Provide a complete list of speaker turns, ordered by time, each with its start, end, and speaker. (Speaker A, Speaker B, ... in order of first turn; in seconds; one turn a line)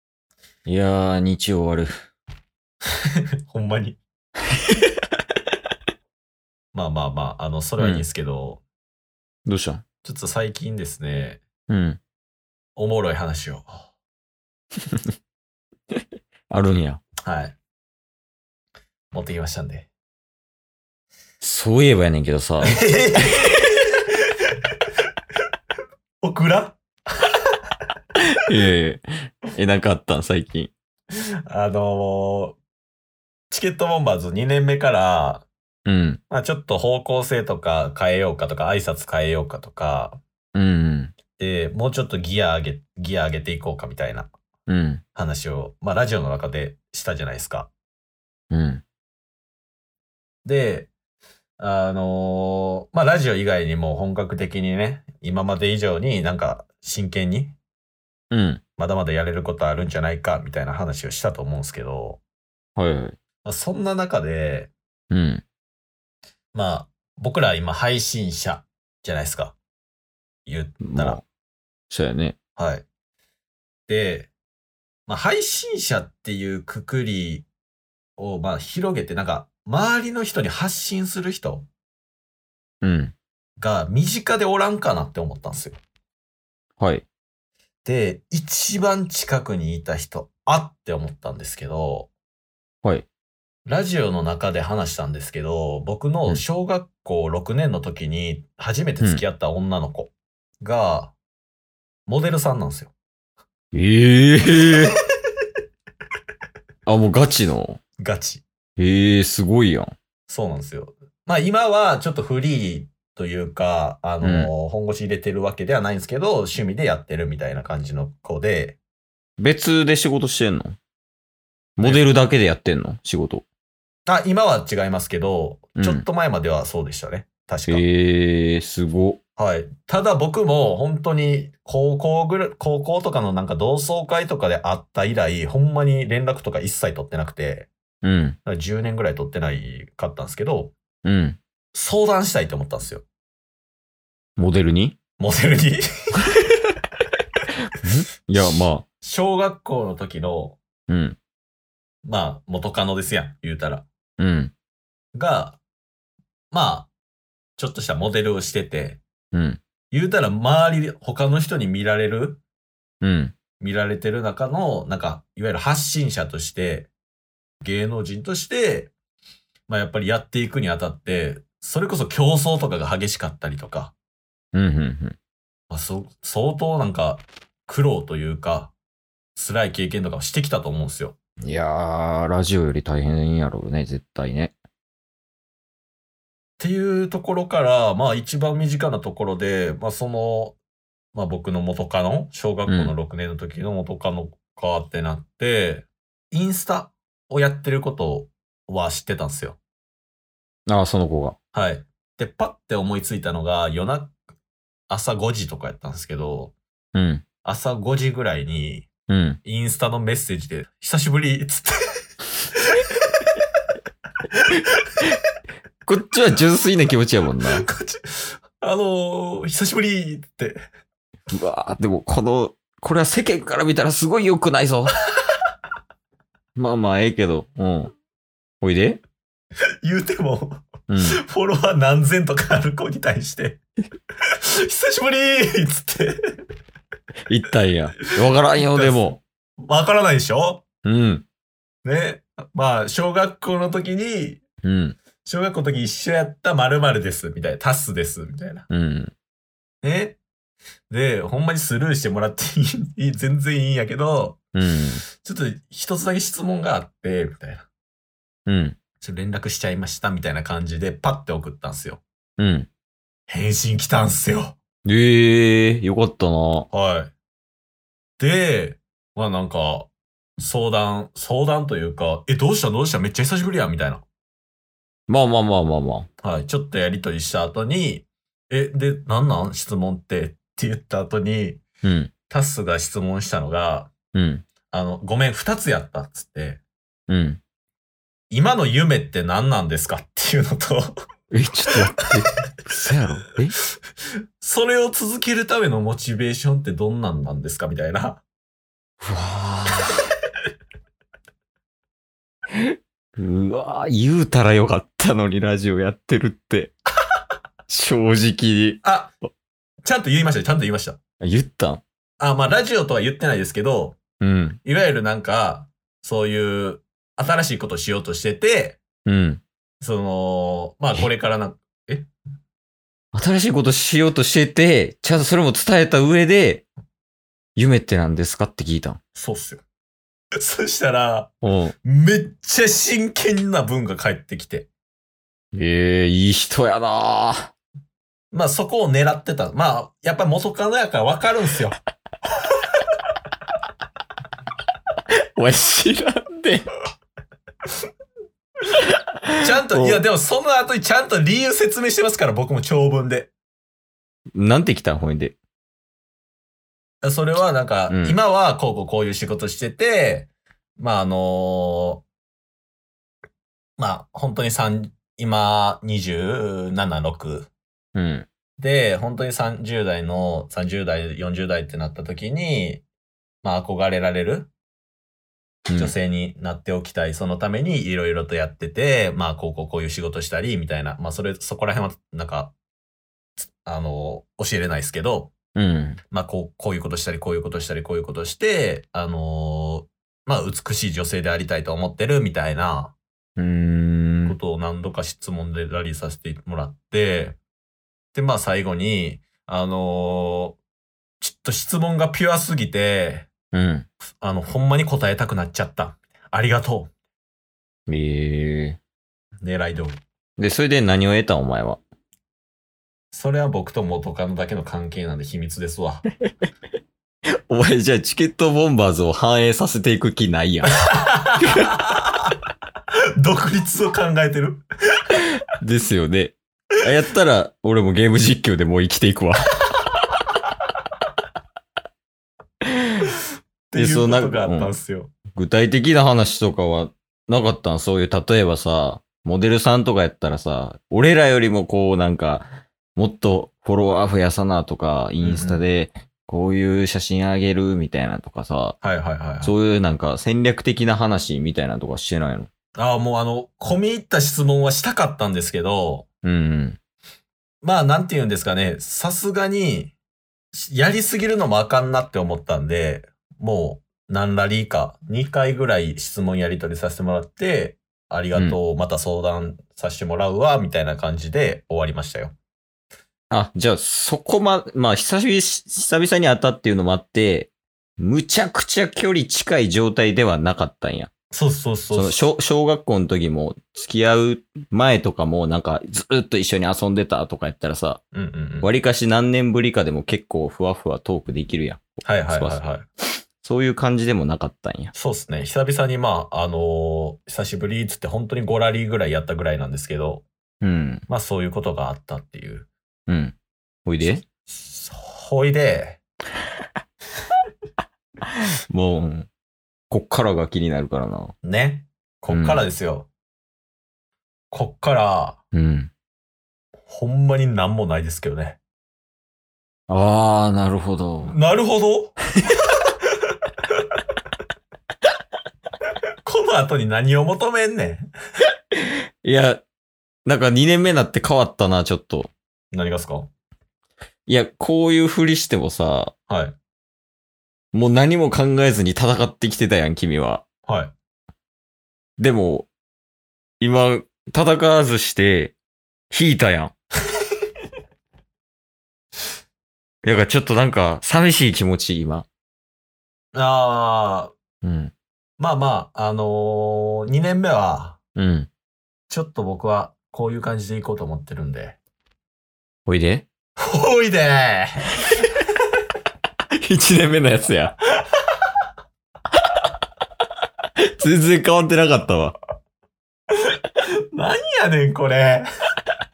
Speaker A: 0.6-1.9
Speaker B: 3.5-4.0
Speaker B: 6.7-8.6
Speaker A: 7.8-8.1
Speaker A: 9.4-9.8
Speaker B: 10.0-11.4
Speaker A: 11.7-12.0
Speaker B: 12.8-13.9
Speaker A: 16.5-17.0
Speaker B: 17.2-17.6
Speaker B: 19.1-19.9
Speaker A: 21.4-22.8
Speaker B: 22.6-23.8
Speaker B: 26.2-27.3
Speaker A: 28.4-30.7
Speaker B: 31.5-32.6
Speaker B: 33.5-35.5
Speaker A: 35.9-36.2
Speaker B: 36.3-40.2
Speaker A: 40.5-41.1
Speaker B: 41.4-44.3
Speaker A: 44.7-45.0
Speaker B: 45.1-47.7
Speaker A: 48.5-48.8
Speaker B: 50.4-50.9
Speaker B: 51.6-57.6
Speaker A: 58.3-58.6
Speaker B: 58.8-62.2
Speaker A: 62.8-63.2
Speaker B: 63.4-64.7
Speaker A: 65.1-65.4
Speaker B: 66.5-69.5
Speaker B: 70.5-71.2
Speaker A: 70.8-71.2
Speaker A: 71.9-72.3
Speaker B: 72.6-72.8
Speaker B: 73.9-74.3
Speaker B: 75.1-77.5
Speaker B: 78.2-81.7
Speaker A: 82.8-83.1
Speaker B: 83.6-85.8
Speaker A: 86.8-87.0
Speaker B: 87.8-92.1
Speaker B: 93.7-101.1
Speaker B: 102.1-102.9
Speaker A: 103.7-104.9
Speaker A: 106.8-107.8
Speaker B: 108.0-108.4
Speaker A: 108.8-109.9
Speaker B: 110.3-118.8
Speaker A: 114.2-114.5
Speaker A: 119.4-120.8
Speaker A: 121.8-123.4
Speaker B: 121.8-122.1
Speaker B: 124.0-127.8
Speaker A: 125.8-126.0
Speaker A: 127.7-129.2
Speaker B: 129.4-137.7
Speaker A: 138.0-138.4
Speaker B: 138.4-140.7
Speaker A: 141.0-141.4
Speaker B: 141.7-143.0
Speaker A: 144.4-145.0
Speaker B: 145.2-145.8
Speaker A: 147.7-148.8
Speaker B: 149.0-150.6
Speaker A: 150.9-151.2
Speaker B: 152.0-153.8
Speaker A: 154.2-154.5
Speaker B: 155.1-155.6
Speaker B: 156.5-156.9
Speaker B: 157.6-159.0
Speaker A: 159.3-159.6
Speaker B: 159.9-162.4
Speaker A: 163.0-163.3
Speaker B: 163.6-166.9
Speaker B: 167.6-168.9
Speaker B: 169.7-173.9
Speaker A: 174.5-175.2
Speaker B: 175.7-178.7
Speaker B: 179.3-181.2
Speaker A: 181.4-184.5
Speaker B: 186.6-190.6
Speaker B: 191.1-199.6
Speaker A: 192.7-192.9
Speaker A: 200.7-201.3
Speaker B: 201.5-204.2
Speaker B: 204.9-206.5
Speaker A: 206.9-207.2
Speaker B: 207.4-208.9
Speaker A: 209.1-209.4
Speaker B: 209.4-212.0
Speaker A: 215.8-217.7
Speaker B: 217.4-220.6
Speaker A: 221.3-224.9
Speaker A: 226.6-227.9
Speaker A: 228.6-229.0
Speaker B: 229.8-233.6
Speaker A: 230.9-231.2
Speaker B: 234.6-236.2
Speaker A: 237.3-239.2
Speaker B: 238.5-240.6
Speaker A: 240.8-241.2
Speaker B: 241.8-244.4
Speaker A: 244.6-245.0
Speaker B: 245.2-248.7
Speaker A: 248.7-249.1
Speaker B: 249.8-250.2
Speaker B: 250.9-254.4
Speaker A: 254.5-255.0
Speaker B: 255.1-257.7
Speaker A: 258.5-258.8
Speaker B: 259.0-262.0
Speaker A: 262.4-262.7
Speaker B: 263.3-264.6
Speaker A: 264.8-266.7
Speaker B: 266.7-267.1
Speaker B: 268.2-274.0
Speaker A: 275.1-276.1
Speaker B: 276.2-281.6
Speaker A: 281.8-282.1
Speaker B: 282.3-283.9
Speaker A: 284.1-284.5
Speaker B: 284.7-286.6
Speaker A: 287.1-287.4
Speaker B: 288.3-290.9
Speaker A: 291.3-293.6
Speaker B: 294.4-298.2
Speaker A: 299.0-300.0
Speaker A: 302.5-306.7
Speaker A: 307.7-308.8
Speaker B: 308.8-309.1
Speaker B: 309.8-311.0
Speaker A: 311.2-311.8
Speaker B: 312.2-314.0
Speaker A: 314.2-314.6
Speaker B: 314.6-318.8
Speaker A: 319.1-319.4
Speaker B: 319.8-322.1
Speaker A: 323.1-326.6
Speaker A: 327.6-329.0
Speaker B: 329.1-329.6
Speaker B: 330.4-331.3
Speaker A: 331.4-331.7
Speaker B: 331.8-334.7
Speaker A: 335.5-337.5
Speaker B: 338.3-341.8
Speaker A: 345.3-346.7
Speaker A: 349.3-350.0
Speaker B: 349.4-353.3
Speaker A: 354.3-355.4
Speaker B: 357.0-362.0
Speaker A: 357.9-358.2
Speaker B: 363.8-367.5
Speaker A: 367.9-368.3
Speaker B: 368.6-372.8
Speaker B: 373.4-374.5
Speaker A: 375.7-375.9
Speaker B: 375.7-382.5
Speaker B: 383.4-385.3
Speaker A: 385.6-386.0
Speaker B: 386.1-392.9
Speaker A: 393.4-394.4
Speaker B: 394.3-397.4
Speaker B: 398.1-400.6
Speaker B: 401.2-403.3
Speaker A: 403.5-403.9
Speaker B: 404.2-406.9
Speaker A: 407.9-408.8
Speaker B: 409.4-410.0
Speaker A: 410.4-411.8
Speaker B: 413.1-416.0
Speaker A: 417.5-420.7
Speaker B: 420.8-422.1
Speaker A: 421.4-421.7
Speaker B: 423.2-425.2
Speaker A: 425.6-429.5
Speaker B: 433.7-435.1
Speaker A: 433.7-434.7
Speaker A: 435.3-448.8
Speaker B: 445.2-445.6
Speaker B: 448.8-449.6
Speaker A: 449.4-452.5
Speaker B: 452.8-456.1
Speaker A: 456.2-456.8
Speaker B: 457.6-459.9
Speaker B: 460.5-472.3
Speaker A: 473.3-481.1
Speaker B: 481.3-482.2
Speaker A: 481.9-488.0
Speaker B: 488.1-488.7
Speaker A: 488.6-492.6
Speaker B: 492.0-492.8
Speaker A: 493.4-494.9
Speaker B: 494.9-500.2
Speaker A: 500.6-501.0
Speaker B: 501.1-502.7
Speaker A: 503.1-504.2
Speaker B: 504.0-506.0
Speaker A: 508.7-509.3
Speaker A: 509.9-511.3
Speaker B: 511.4-513.1
Speaker A: 512.3-512.7
Speaker B: 514.5-515.4
Speaker A: 515.5-515.9
Speaker B: 516.9-518.6
Speaker A: 519.9-521.4
Speaker B: 521.2-522.2
Speaker B: 526.2-528.1
Speaker A: 529.2-529.6
Speaker A: 530.2-532.3
Speaker B: 532.7-533.3
Speaker A: 534.3-536.1
Speaker B: 536.3-536.5
Speaker A: 537.7-540.4
Speaker B: 540.6-540.9
Speaker A: 542.2-542.7
Speaker A: 543.6-545.5
Speaker A: 546.1-546.7
Speaker A: 550.0-552.3
Speaker B: 553.3-554.3
Speaker A: 554.6-554.9
Speaker B: 555.4-558.0
Speaker A: 558.1-558.5
Speaker B: 559.1-561.8
Speaker A: 562.9-563.3
Speaker B: 563.6-564.9
Speaker A: 566.6-567.8
Speaker A: 570.8-572.4
Speaker B: 574.1-575.5